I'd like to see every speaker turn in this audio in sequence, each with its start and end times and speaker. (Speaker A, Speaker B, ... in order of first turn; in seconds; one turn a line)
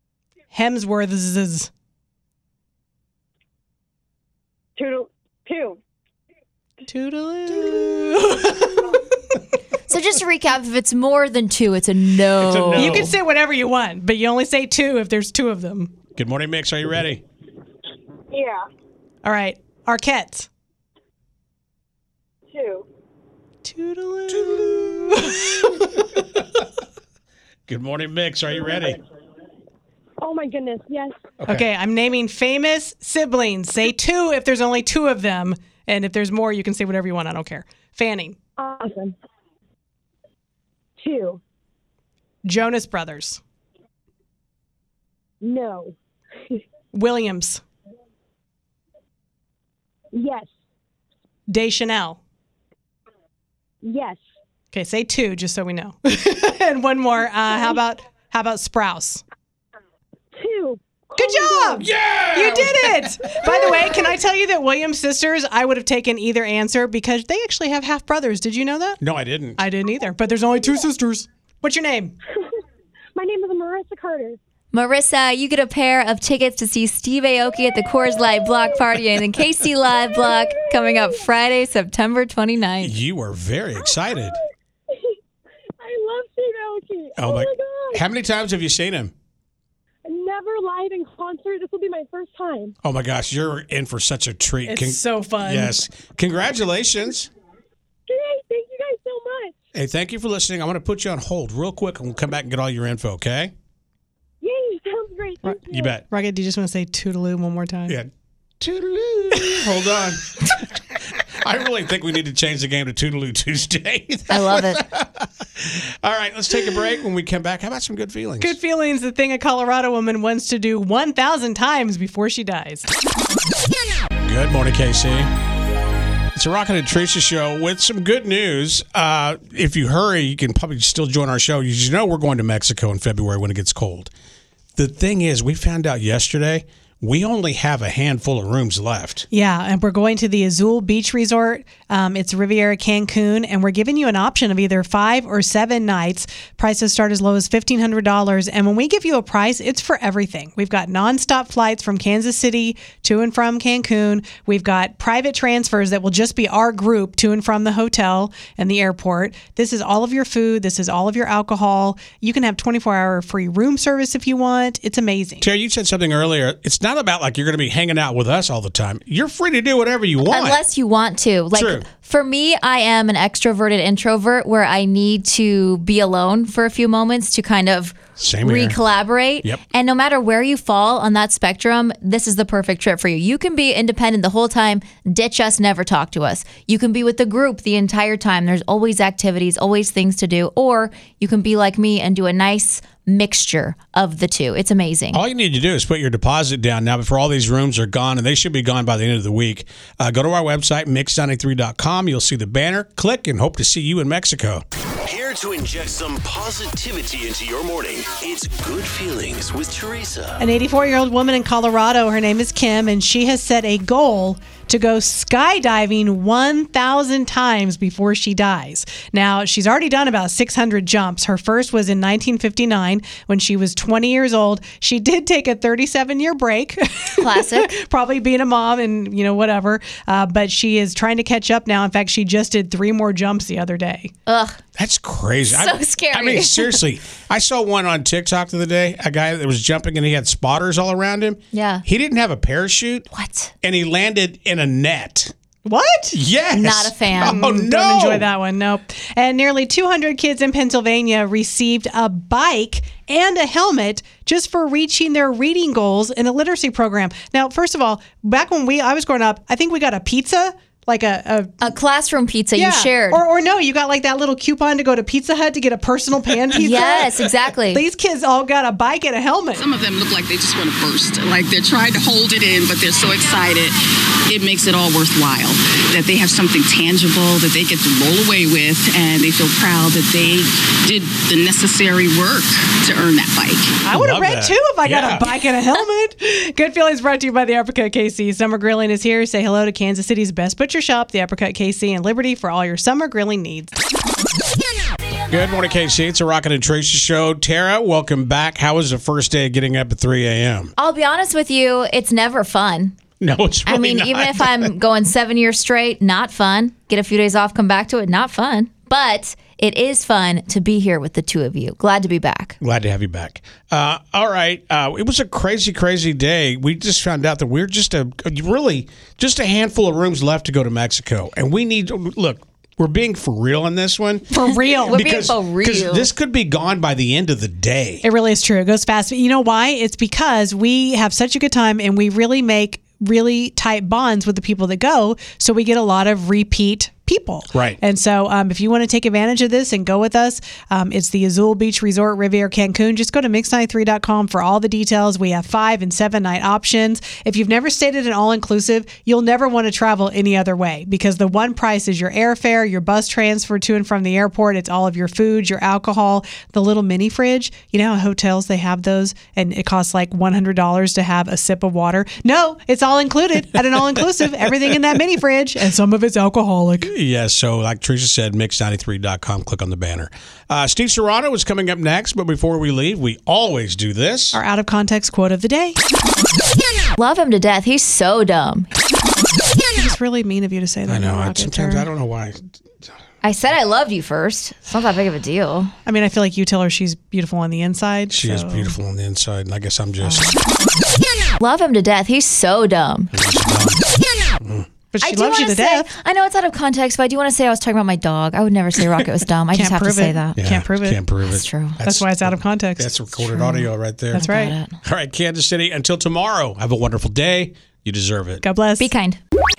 Speaker A: 0.5-1.7
Speaker B: 4.8-5.8
Speaker A: 6.9-9.0
Speaker C: 9.9-13.0
Speaker D: 12.4-13.1
Speaker A: 12.8-15.9
Speaker D: 16.1-17.2
Speaker B: 18.3-18.6
Speaker A: 19.2-20.5
Speaker B: 22.5-22.8
Speaker A: 23.6-26.1
Speaker D: 24.4-24.8
Speaker D: 27.7-29.0
Speaker B: 30.2-31.1
Speaker A: 31.5-38.4
Speaker B: 38.6-39.1
Speaker B: 41.0-41.4
Speaker A: 42.4-43.4
Speaker B: 45.4-45.9
Speaker A: 46.9-47.6
Speaker B: 50.1-50.5
Speaker A: 51.5-52.2
Speaker B: 53.8-54.2
Speaker A: 54.7-59.2
Speaker B: 60.4-61.9
Speaker A: 61.1-69.0
Speaker D: 61.8-63.7
Speaker D: 69.0-69.6
Speaker A: 69.6-72.1
Speaker B: 73.1-74.4
Speaker C: 74.7-82.9
Speaker B: 80.2-81.2
Speaker D: 82.8-84.4
Speaker B: 83.8-85.1
Speaker B: 85.8-88.0
Speaker D: 87.2-89.1
Speaker B: 90.0-92.7
Speaker D: 92.8-97.3
Speaker A: 94.7-95.7
Speaker B: 98.1-99.5
Speaker D: 99.7-103.5
Speaker B: 104.4-106.0
Speaker A: 105.4-108.0
Speaker D: 105.7-106.0
Speaker D: 107.9-110.8
Speaker D: 111.4-118.5
Speaker C: 114.3-114.8
Speaker A: 118.4-122.8
Speaker D: 124.2-125.3
Speaker D: 126.3-134.1
Speaker D: 134.8-139.3
Speaker A: 139.3-165.4
Speaker D: 165.4-170.6
Speaker C: 170.3-195.2
Speaker D: 171.5-171.8
Speaker D: 178.2-178.8
Speaker D: 195.1-204.6
Speaker E: 205.0-210.4
Speaker A: 210.4-234.1
Speaker C: 227.2-227.7
Speaker C: 234.3-234.6
Speaker D: 234.8-243.1
Speaker C: 235.5-236.8
Speaker C: 241.5-241.8
Speaker C: 243.1-243.5
Speaker D: 243.6-245.3
Speaker A: 245.6-246.2
Speaker D: 246.1-248.3
Speaker C: 246.5-247.4
Speaker A: 247.2-261.5
Speaker C: 261.6-263.2
Speaker A: 262.6-269.6
Speaker C: 266.6-267.8
Speaker F: 269.6-273.8
Speaker F: 274.3-283.8
Speaker A: 283.8-293.7
Speaker D: 283.9-285.3
Speaker D: 295.3-300.7
Speaker C: 300.8-302.9
Speaker D: 303.2-304.7
Speaker C: 303.6-312.6
Speaker D: 312.6-324.3
Speaker A: 324.3-325.0
Speaker C: 324.9-326.1
Speaker D: 324.9-328.0
Speaker A: 328.0-366.9
Speaker D: 337.5-337.8
Speaker D: 366.8-374.4
Speaker A: 374.3-375.8
Speaker C: 377.0-378.7
Speaker A: 379.7-381.9
Speaker D: 380.9-382.9
Speaker C: 383.2-385.7
Speaker A: 385.9-388.7
Speaker D: 388.1-390.4
Speaker C: 390.0-390.3
Speaker C: 391.4-393.1
Speaker D: 393.1-393.8
Speaker D: 394.4-394.7
Speaker A: 394.9-395.9
Speaker C: 395.0-400.4
Speaker A: 399.5-401.0
Speaker D: 400.4-404.2
Speaker C: 401.3-401.8
Speaker A: 401.8-402.9
Speaker C: 403.2-404.8
Speaker A: 404.1-404.5
Speaker D: 404.8-408.4
Speaker A: 408.4-408.9
Speaker C: 408.8-409.2